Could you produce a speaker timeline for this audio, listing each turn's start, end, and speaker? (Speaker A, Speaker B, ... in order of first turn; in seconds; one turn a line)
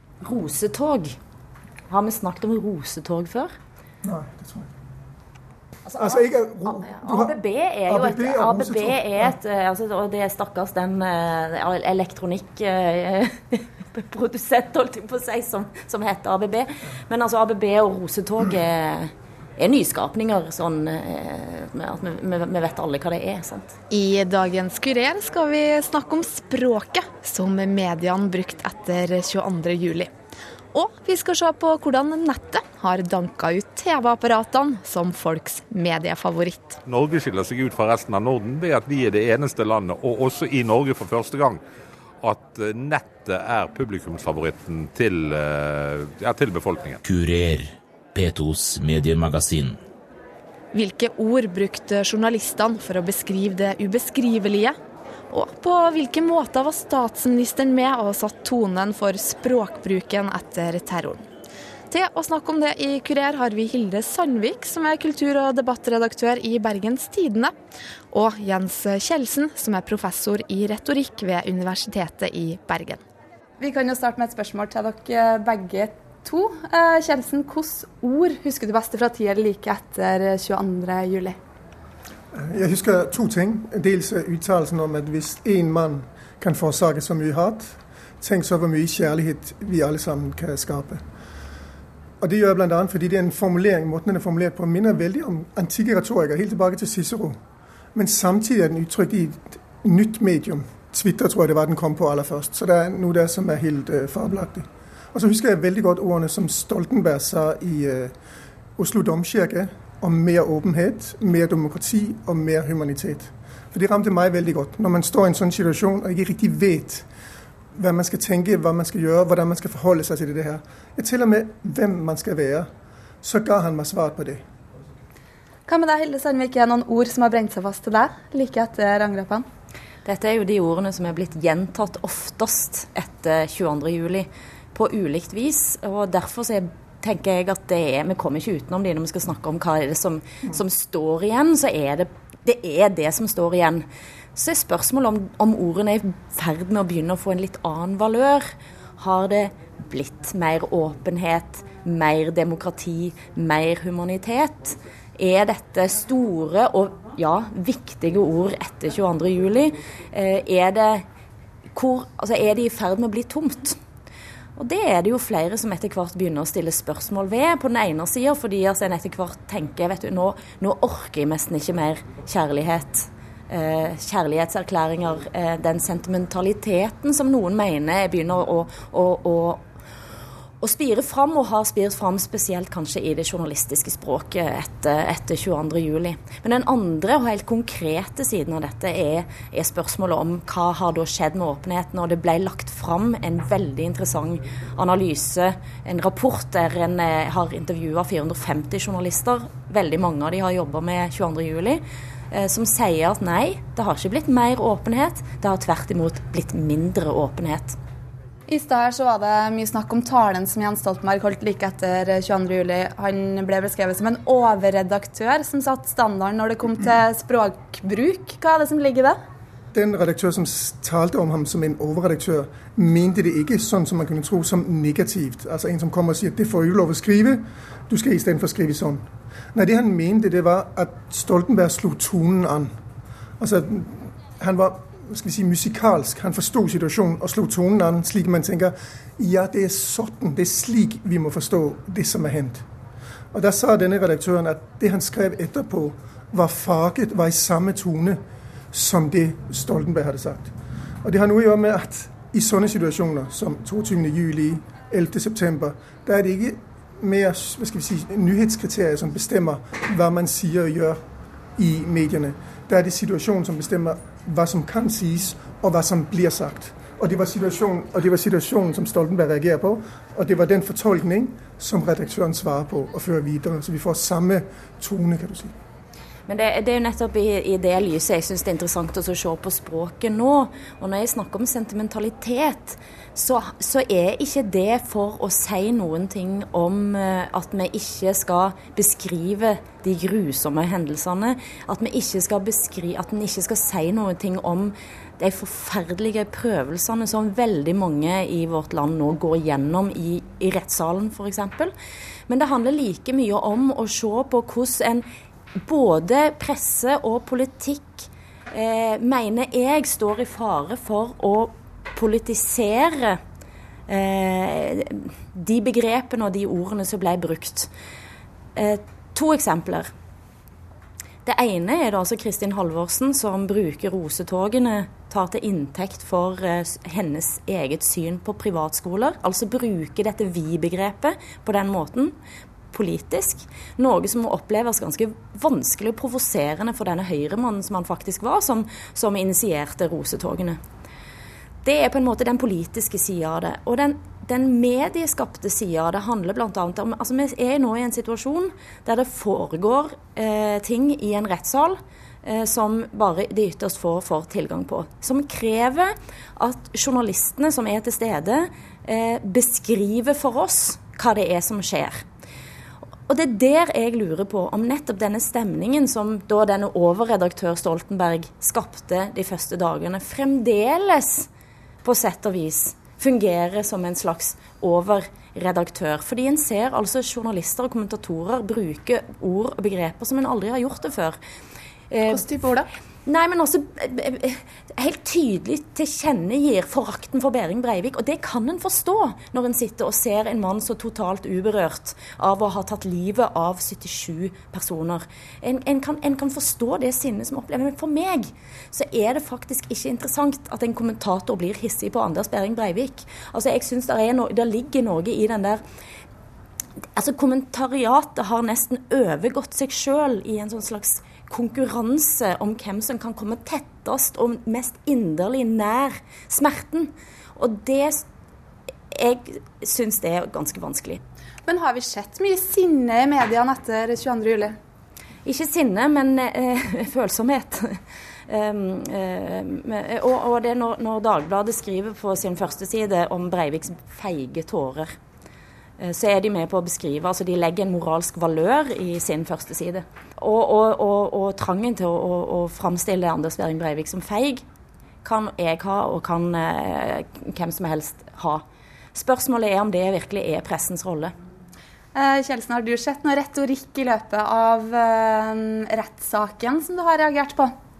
Speaker A: 0.2-1.2
Speaker A: 1.9-3.5
Speaker B: 4.0-4.7
Speaker A: 5.9-23.8
Speaker B: 5.9-7.3
Speaker B: 7.9-9.3
Speaker C: 23.9-30.1
Speaker C: 30.7-36.8
Speaker D: 36.9-41.6
Speaker D: 42.2-47.0
Speaker E: 47.0-49.8
Speaker C: 50.7-54.8
Speaker C: 55.3-61.2
Speaker C: 61.9-67.5
Speaker C: 68.1-73.0
Speaker F: 73.6-81.4
Speaker B: 82.3-91.0
Speaker B: 92.2-97.4
Speaker B: 97.9-108.1
Speaker B: 108.8-117.1
Speaker B: 117.7-122.7
Speaker B: 123.2-124.4
Speaker F: 125.7-129.4
Speaker A: 130.0-161.0
Speaker A: 161.7-163.8
Speaker A: 164.6-179.6
Speaker A: 180.6-207.8
Speaker F: 208.5-219.2
Speaker B: 219.7-232.7
Speaker B: 233.4-242.7
Speaker B: 243.3-248.2
Speaker B: 248.7-261.0
Speaker B: 261.6-275.5
Speaker A: 276.3-301.7
Speaker A: 302.3-305.1
Speaker A: 305.6-313.2
Speaker A: 313.9-317.7
Speaker A: 318.6-319.9
Speaker A: 321.2-332.1
Speaker A: 332.7-340.6
Speaker A: 341.6-362.0
Speaker A: 363.1-371.3
Speaker A: 371.8-381.2
Speaker A: 381.9-382.3
Speaker F: 382.1-382.7
Speaker A: 383.1-405.6
Speaker A: 406.9-418.0
Speaker A: 418.9-421.0
Speaker F: 421.4-424.6
Speaker A: 425.2-434.9
Speaker A: 435.8-444.4
Speaker A: 445.0-448.4
Speaker A: 448.9-451.1
Speaker F: 451.9-457.5